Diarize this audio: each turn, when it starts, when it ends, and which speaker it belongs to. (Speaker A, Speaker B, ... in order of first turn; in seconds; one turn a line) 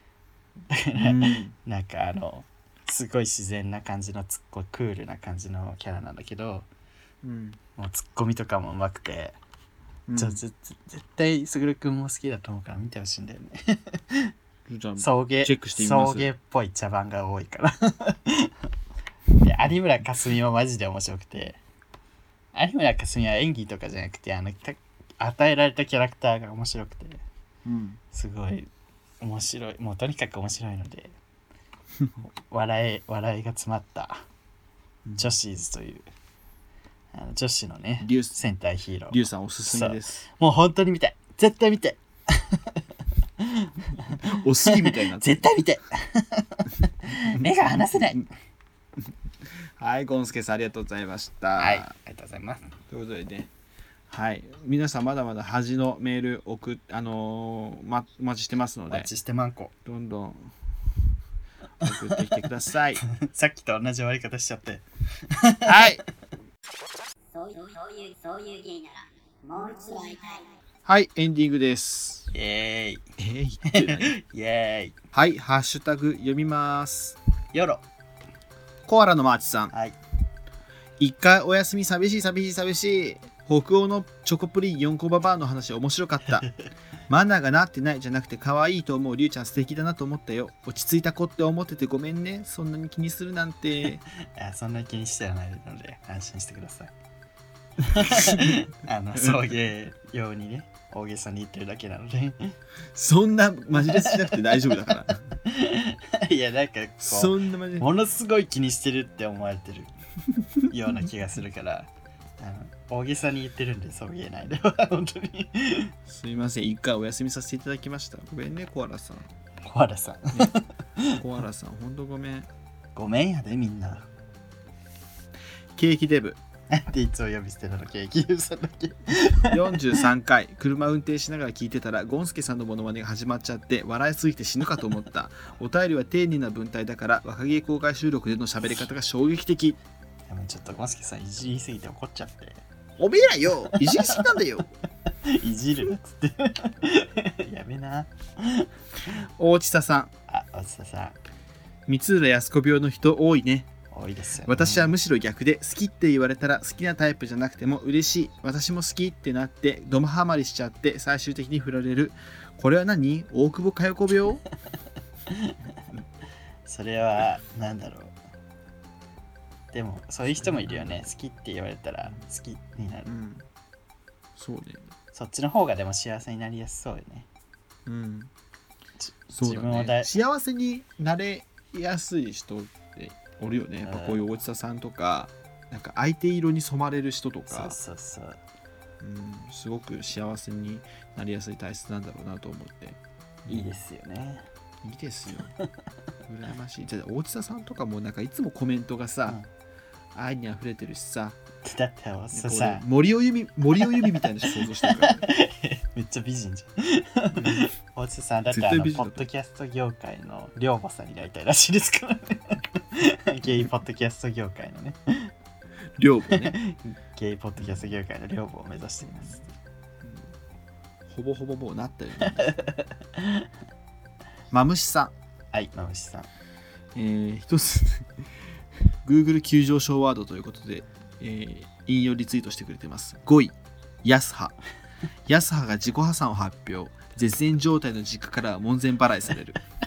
Speaker A: 0.7-6.7
Speaker B: 1.0-1.5
Speaker B: 7.2-7.6
Speaker A: 7.8-9.3
Speaker B: 10.1-10.4
Speaker A: 10.2-14.3
Speaker B: 14.7-16.3
Speaker A: 15.0-18.7
Speaker A: 19.4-21.6
Speaker A: 22.5-27.2
Speaker B: 27.6-28.0
Speaker A: 28.1-28.7
Speaker A: 29.2-31.1
Speaker A: 32.5-34.2
Speaker B: 35.0-35.4
Speaker A: 35.2-36.1
Speaker A: 37.1-42.9
Speaker B: 38.0-38.4
Speaker B: 39.1-40.2
Speaker A: 43.4-48.3
Speaker B: 44.1-45.5
Speaker B: 47.1-47.5
Speaker B: 49.8-51.9
Speaker A: 51.6-52.7
Speaker B: 52.9-53.5
Speaker B: 54.1-59.1
Speaker A: 58.9-59.7
Speaker B: 59.8-60.5
Speaker B: 61.8-63.0
Speaker A: 63.1-66.0
Speaker B: 65.7-66.0
Speaker C: 67.3-70.5
Speaker B: 70.8-72.3
Speaker A: 72.3-73.0
Speaker B: 73.2-74.2
Speaker A: 73.7-74.9
Speaker B: 75.1-77.2
Speaker A: 77.5-77.8
Speaker B: 78.9-79.7
Speaker B: 81.0-86.5
Speaker B: 87.1-94.0
Speaker A: 94.2-96.9
Speaker A: 97.8-102.5
Speaker B: 98.0-98.6
Speaker B: 99.1-99.4
Speaker B: 102.9-105.3
Speaker A: 103.8-104.4
Speaker A: 105.4-109.9
Speaker B: 107.0-107.9
Speaker A: 110.7-115.9
Speaker B: 116.1-119.3
Speaker A: 119.6-121.2
Speaker B: 121.1-122.5
Speaker A: 122.9-124.0
Speaker B: 125.8-126.4
Speaker A: 126.7-129.9
Speaker B: 129.5-139.8
Speaker A: 140.3-142.6
Speaker B: 143.0-144.7
Speaker A: 143.7-144.2
Speaker A: 145.1-149.2
Speaker B: 149.4-150.1
Speaker A: 150.3-151.2
Speaker B: 151.9-153.7
Speaker A: 153.9-154.9
Speaker B: 154.4-164.4
Speaker A: 165.3-165.7
Speaker A: 166.7-168.1
Speaker A: 169.7-173.1
Speaker B: 170.3-171.1
Speaker B: 173.1-173.4
Speaker B: 174.3-174.9
Speaker A: 175.1-177.2
Speaker B: 177.8-178.3
Speaker A: 179.0-180.1
Speaker B: 179.3-187.8
Speaker A: 183.8-184.2
Speaker A: 187.5-188.4
Speaker B: 189.0-193.8
Speaker A: 193.5-194.5
Speaker B: 194.8-195.5
Speaker B: 196.2-199.4
Speaker B: 200.1-201.4
Speaker A: 201.6-202.8
Speaker B: 202.3-205.2
Speaker A: 203.8-215.3
Speaker B: 207.3-207.7
Speaker B: 208.5-209.2
Speaker B: 216.0-216.6
Speaker A: 216.3-219.5
Speaker B: 220.0-220.3
Speaker B: 221.1-222.6
Speaker A: 222.2-223.5
Speaker B: 224.5-225.1
Speaker A: 225.5-226.3
Speaker B: 226.9-228.3
Speaker B: 229.0-234.6
Speaker B: 235.2-239.6